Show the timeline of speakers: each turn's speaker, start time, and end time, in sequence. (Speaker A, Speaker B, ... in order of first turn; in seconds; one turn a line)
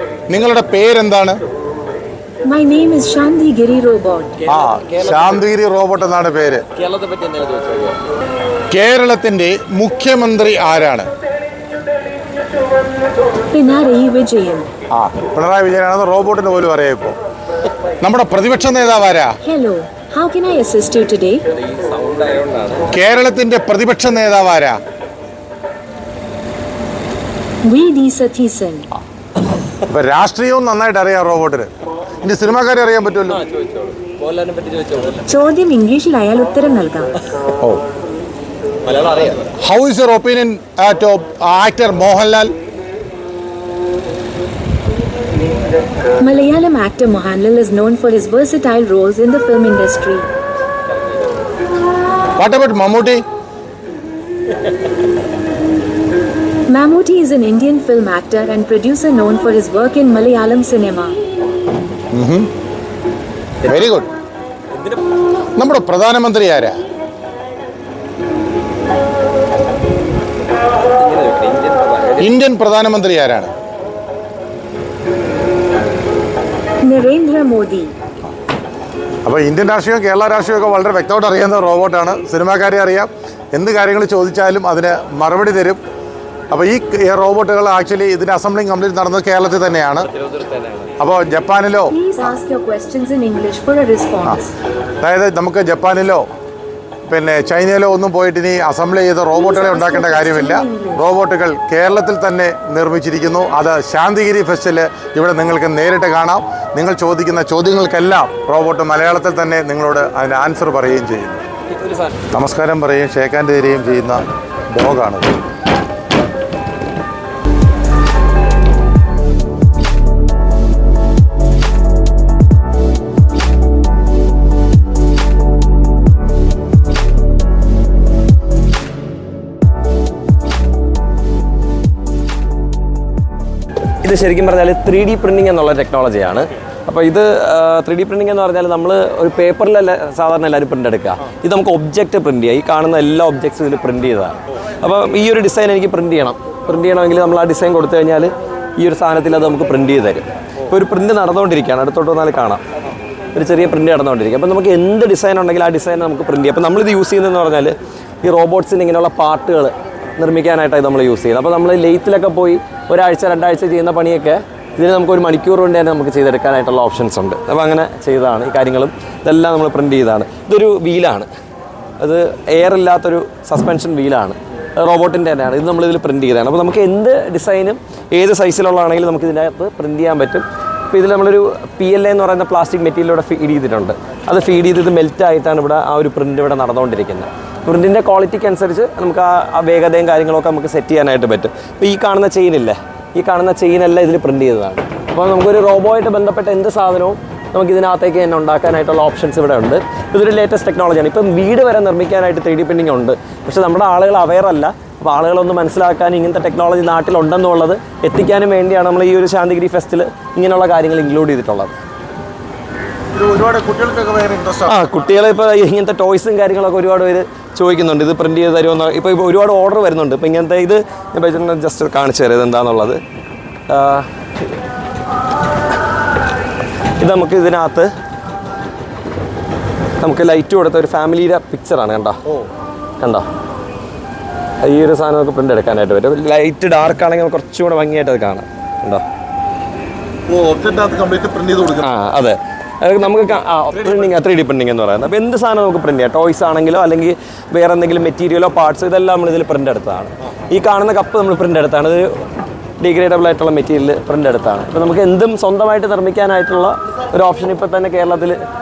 Speaker A: 0.3-1.4
Speaker B: 2.5-4.4
Speaker C: 4.4-5.4
Speaker A: 4.5-6.7
Speaker C: 6.8-8.0
Speaker A: 8.7-11.1
Speaker B: 13.5-14.7
Speaker A: 14.9-17.2
Speaker A: 18.0-19.4
Speaker B: 19.4-21.4
Speaker C: 21.5-22.9
Speaker A: 22.9-24.8
Speaker B: 27.7-28.9
Speaker A: 29.9-31.7
Speaker A: 32.2-33.4
Speaker C: 33.3-35.3
Speaker B: 35.3-37.1
Speaker C: 38.9-39.5
Speaker A: 39.6-42.5
Speaker B: 46.2-50.3
Speaker A: 52.4-53.2
Speaker B: 56.7-61.2
Speaker A: 62.1-62.5
Speaker A: 63.6-64.1
Speaker C: 64.7-65.0
Speaker A: 65.6-66.8
Speaker C: 71.0-72.3
Speaker A: 72.2-73.5
Speaker B: 76.8-77.9
Speaker A: 79.2-85.8
Speaker A: 86.5-90.1
Speaker C: 90.1-90.9
Speaker A: 91.0-91.9
Speaker B: 91.9-94.5
Speaker A: 95.0-96.3
Speaker A: 97.1-111.4
Speaker B: 99.3-101.0
Speaker C: 111.8-112.1
Speaker A: 112.3-115.3
Speaker C: 134.0-152.6
Speaker C: 153.3-171.3
Speaker C: 172.0-211.7
Speaker A: 213.1-214.8
Speaker C: 214.7-223.0
Speaker C: 223.7-224.1
Speaker C: 227.0-227.9
Speaker C: 230.0-232.2
Speaker C: 233.0-233.3
Speaker C: 234.6-239.0
Speaker A: 240.3-241.8
Speaker C: 241.8-252.1
Speaker C: 252.8-258.4